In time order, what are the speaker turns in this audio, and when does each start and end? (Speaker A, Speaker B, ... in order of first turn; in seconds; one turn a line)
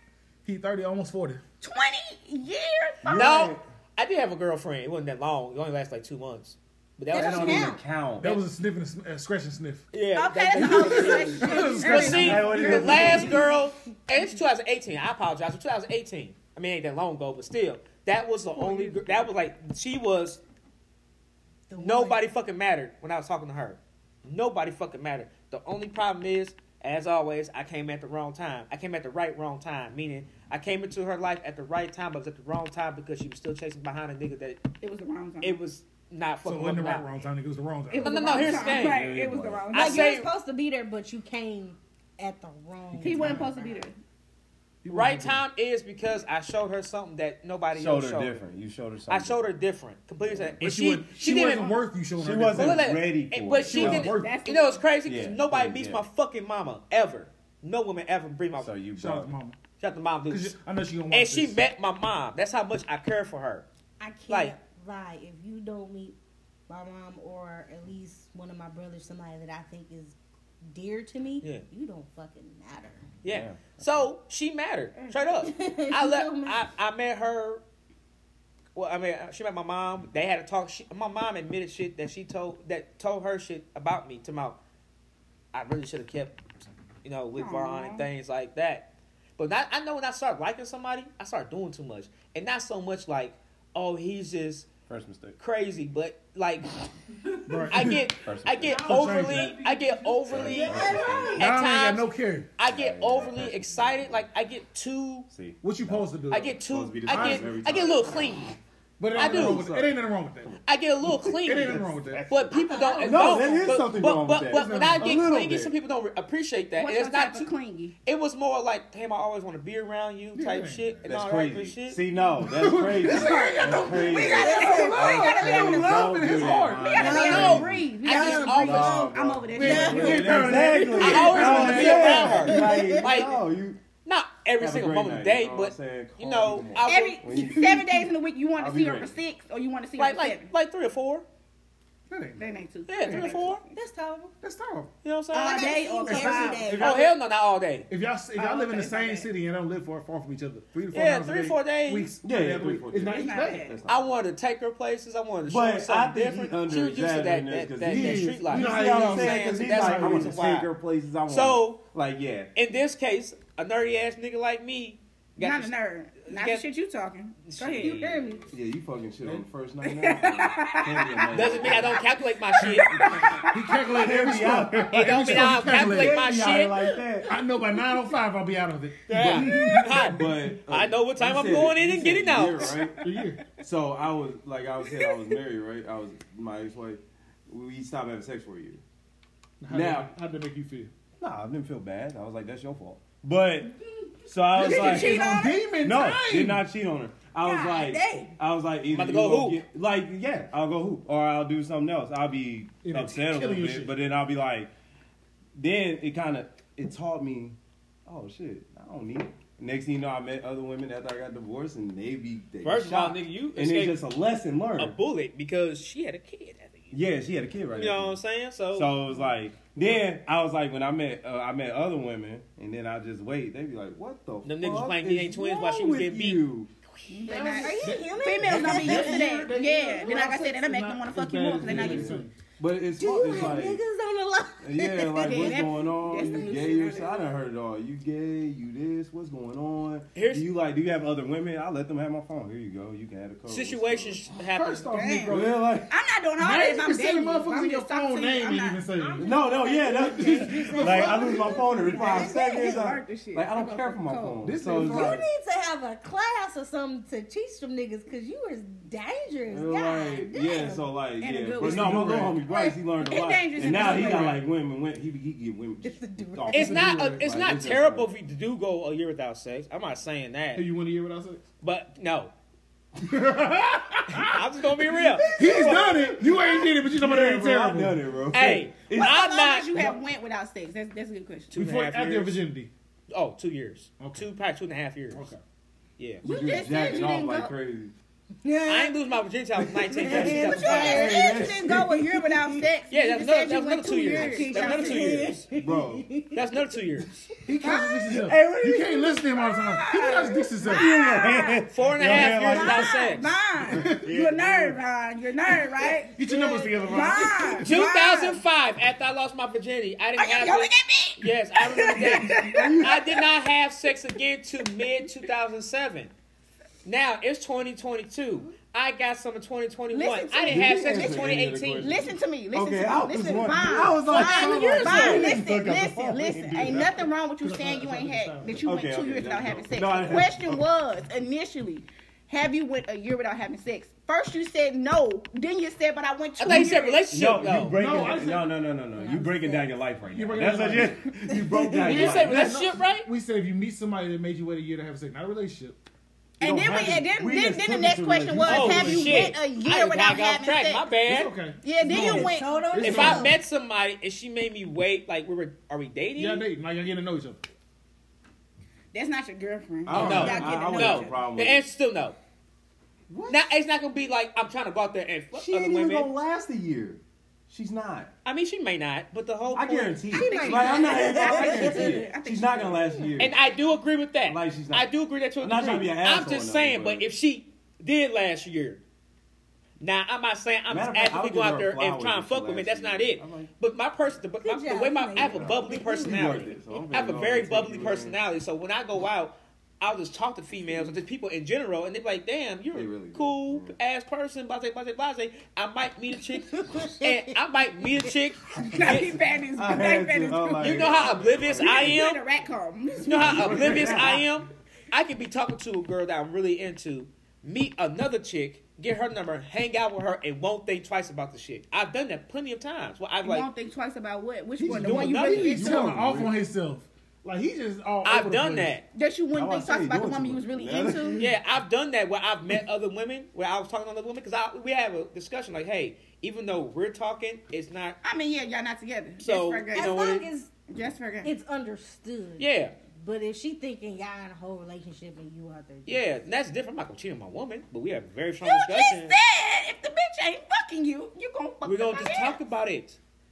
Speaker A: 0.4-1.4
Speaker B: 1.6-3.5
Speaker C: 3.0-3.6
Speaker D: 3.1-8.4
Speaker E: 7.1-7.8
Speaker C: 7.1-8.3
Speaker A: 8.2-9.8
Speaker D: 9.9-20.4
Speaker B: 10.2-13.5
Speaker A: 10.5-13.3
Speaker E: 10.9-12.8
Speaker C: 12.0-13.4
Speaker A: 18.6-19.0
Speaker E: 21.7-22.2
Speaker D: 21.8-34.6
Speaker B: 34.8-35.6
Speaker D: 35.4-37.0
Speaker A: 36.4-38.8
Speaker B: 37.9-40.2
Speaker D: 38.0-39.1
Speaker C: 38.6-39.7
Speaker D: 39.7-40.3
Speaker E: 39.7-43.6
Speaker B: 43.0-44.0
Speaker A: 43.0-43.5
Speaker A: 44.8-45.4
Speaker D: 44.9-48.4
Speaker C: 47.7-49.5
Speaker D: 49.1-51.8
Speaker C: 50.2-50.5
Speaker A: 50.6-52.9
Speaker C: 52.2-54.1
Speaker D: 52.5-58.7
Speaker A: 53.6-54.4
Speaker B: 54.0-54.8
Speaker C: 55.0-56.0
Speaker C: 58.5-59.3
Speaker A: 58.9-59.6
Speaker D: 59.8-60.5
Speaker A: 60.3-61.6
Speaker D: 61.1-63.6
Speaker E: 64.0-66.2
Speaker D: 64.3-64.5
Speaker E: 66.7-73.0
Speaker D: 73.2-77.6
Speaker C: 73.2-73.8
Speaker E: 75.4-76.6
Speaker D: 78.7-84.6
Speaker D: 85.5-86.4
Speaker D: 87.0-94.7
Speaker B: 87.3-88.0
Speaker C: 94.9-95.4
Speaker D: 95.4-96.8
Speaker A: 97.5-98.0
Speaker D: 97.7-105.3
Speaker C: 97.7-99.4
Speaker A: 98.6-100.5
Speaker C: 100.3-101.4
Speaker E: 100.3-101.5
Speaker A: 101.4-102.5
Speaker C: 102.7-104.3
Speaker C: 105.3-106.1
Speaker A: 105.6-107.5
Speaker D: 106.3-108.6
Speaker C: 106.7-108.3
Speaker A: 109.0-112.5
Speaker D: 109.1-109.7
Speaker C: 109.1-109.9
Speaker D: 110.7-117.5
Speaker C: 111.0-112.4
Speaker E: 112.5-113.7
Speaker C: 113.0-115.7
Speaker A: 113.3-113.5
Speaker A: 114.5-115.3
Speaker B: 116.8-117.9
Speaker D: 118.0-122.0
Speaker A: 120.3-121.1
Speaker C: 121.0-133.8
Speaker A: 122.4-127.1
Speaker B: 123.1-126.1
Speaker E: 124.4-125.9
Speaker B: 126.7-130.8
Speaker E: 126.8-130.3
Speaker D: 127.1-129.1
Speaker A: 129.5-132.4
Speaker D: 130.9-133.4
Speaker E: 132.2-133.1
Speaker D: 134.0-137.2
Speaker C: 134.6-138.0
Speaker B: 136.8-140.5
Speaker C: 138.6-139.1
Speaker D: 140.0-141.2
Speaker A: 142.1-143.4
Speaker B: 142.4-143.8
Speaker D: 142.9-143.6
Speaker E: 143.7-144.3
Speaker A: 144.4-144.9
Speaker D: 145.0-145.7
Speaker B: 145.3-147.0
Speaker E: 145.3-147.0
Speaker A: 146.0-147.1
Speaker D: 146.7-147.9
Speaker A: 147.9-153.7
Speaker B: 148.3-149.3
Speaker D: 150.9-152.1
Speaker C: 152.2-154.2
Speaker B: 153.1-153.8
Speaker D: 153.9-160.7
Speaker C: 155.5-162.5
Speaker A: 157.8-160.4
Speaker D: 161.3-161.8
Speaker D: 162.5-166.6
Speaker B: 165.4-168.0
Speaker D: 167.4-168.3
Speaker E: 167.8-168.5
Speaker C: 168.5-172.0
Speaker B: 169.8-172.0
Speaker D: 171.3-173.1
Speaker B: 172.6-173.9
Speaker C: 172.9-173.3
Speaker A: 173.5-176.3
Speaker C: 173.9-177.3
Speaker D: 174.8-176.7
Speaker B: 176.3-178.0
Speaker A: 177.2-180.3
Speaker D: 179.1-182.8
Speaker C: 180.1-188.8
Speaker B: 182.7-183.2
Speaker A: 183.0-183.4
Speaker B: 184.9-185.2
Speaker A: 189.6-190.9
Speaker C: 189.7-190.1
Speaker C: 191.2-204.7
Speaker B: 194.6-195.7
Speaker A: 194.6-196.7
Speaker B: 197.4-198.3
Speaker D: 198.9-199.6
Speaker A: 202.8-203.9
Speaker C: 205.6-214.9
Speaker D: 212.6-214.0
Speaker D: 214.8-217.0
Speaker C: 216.9-218.2
Speaker D: 217.7-218.9
Speaker C: 218.7-226.7
Speaker D: 224.4-226.4
Speaker D: 227.0-227.3
Speaker B: 227.1-232.2
Speaker A: 227.3-232.3
Speaker E: 227.4-229.3
Speaker C: 231.6-233.8
Speaker E: 233.0-236.7
Speaker C: 234.6-244.2
Speaker B: 235.2-237.3
Speaker D: 240.1-240.5
Speaker D: 243.5-245.2
Speaker A: 244.5-245.6
Speaker B: 244.9-248.8
Speaker C: 245.3-245.9
Speaker A: 246.4-249.3
Speaker E: 248.9-252.8
Speaker C: 249.2-255.2
Speaker A: 250.0-251.3
Speaker B: 250.8-254.4
Speaker A: 254.4-255.2
Speaker E: 254.7-260.8
Speaker C: 259.5-268.1
Speaker B: 261.2-264.4
Speaker A: 261.6-262.4
Speaker A: 263.6-264.4
Speaker E: 265.8-266.8
Speaker D: 266.5-270.6
Speaker A: 266.6-267.3
Speaker A: 270.5-271.4
Speaker D: 271.6-272.3
Speaker A: 273.0-278.0
Speaker D: 274.1-275.4
Speaker C: 275.2-279.2
Speaker D: 278.3-279.8
Speaker B: 279.0-281.6
Speaker D: 281.5-282.4
Speaker A: 281.5-282.7
Speaker D: 283.1-285.3
Speaker A: 284.0-284.2
Speaker A: 285.1-285.4
Speaker D: 286.0-286.2
Speaker C: 286.2-287.9
Speaker B: 286.2-287.5
Speaker E: 288.4-288.9
Speaker D: 288.7-291.1
Speaker E: 289.9-292.7
Speaker C: 290.0-291.9
Speaker B: 290.3-295.3
Speaker D: 292.9-295.4
Speaker E: 294.1-296.5
Speaker C: 295.5-296.1
Speaker D: 296.3-297.1
Speaker A: 297.4-300.9
Speaker B: 297.6-298.2
Speaker C: 298.1-299.2
Speaker B: 299.3-308.4
Speaker C: 300.6-303.1
Speaker D: 301.7-303.3
Speaker C: 303.7-304.8
Speaker A: 303.7-304.1
Speaker A: 306.1-307.7
Speaker E: 306.5-307.4
Speaker D: 307.6-316.1
Speaker B: 310.2-313.2
Speaker C: 312.5-313.0
Speaker D: 316.8-321.9
Speaker B: 319.9-321.2
Speaker C: 320.5-327.1
Speaker B: 321.8-337.3
Speaker A: 323.9-325.4
Speaker D: 324.2-325.3
Speaker A: 327.4-328.7
Speaker C: 328.6-330.6
Speaker D: 336.4-337.8
Speaker C: 337.1-342.5
Speaker A: 337.7-338.5
Speaker E: 339.0-339.7
Speaker A: 340.1-345.8
Speaker D: 341.8-343.1
Speaker B: 346.4-350.9
Speaker C: 346.4-349.2
Speaker D: 348.4-351.3
Speaker A: 348.5-349.0
Speaker A: 351.0-353.4
Speaker B: 351.6-352.7
Speaker E: 351.8-353.4
Speaker D: 352.8-356.4
Speaker A: 356.1-357.4
Speaker B: 358.9-361.2
Speaker C: 359.8-361.6
Speaker D: 359.9-362.2
Speaker C: 363.1-363.5
Speaker D: 363.3-366.1
Speaker C: 365.3-368.1
Speaker D: 368.2-370.2
Speaker C: 369.5-373.4
Speaker E: 370.1-372.1
Speaker B: 370.1-372.9
Speaker D: 373.2-378.8
Speaker C: 374.3-374.9
Speaker C: 375.4-377.1
Speaker D: 379.8-399.2
Speaker C: 380.7-383.5
Speaker E: 384.4-386.2
Speaker C: 385.1-388.2
Speaker C: 392.7-393.7
Speaker E: 396.4-397.3
Speaker B: 398.6-404.1
Speaker C: 399.5-402.0
Speaker D: 400.6-402.2
Speaker D: 403.0-413.5
Speaker C: 403.2-404.3
Speaker B: 413.2-415.9
Speaker A: 414.6-418.8
Speaker D: 414.6-415.5
Speaker C: 414.7-416.3
Speaker D: 418.0-418.8
Speaker B: 418.9-421.2
Speaker C: 419.3-421.3
Speaker D: 421.2-428.0
Speaker B: 428.0-431.3
Speaker D: 429.2-430.2
Speaker E: 429.7-430.5
Speaker E: 431.2-436.1
Speaker D: 432.4-432.7
Speaker D: 435.9-439.1
Speaker B: 438.4-442.4
Speaker D: 441.6-443.0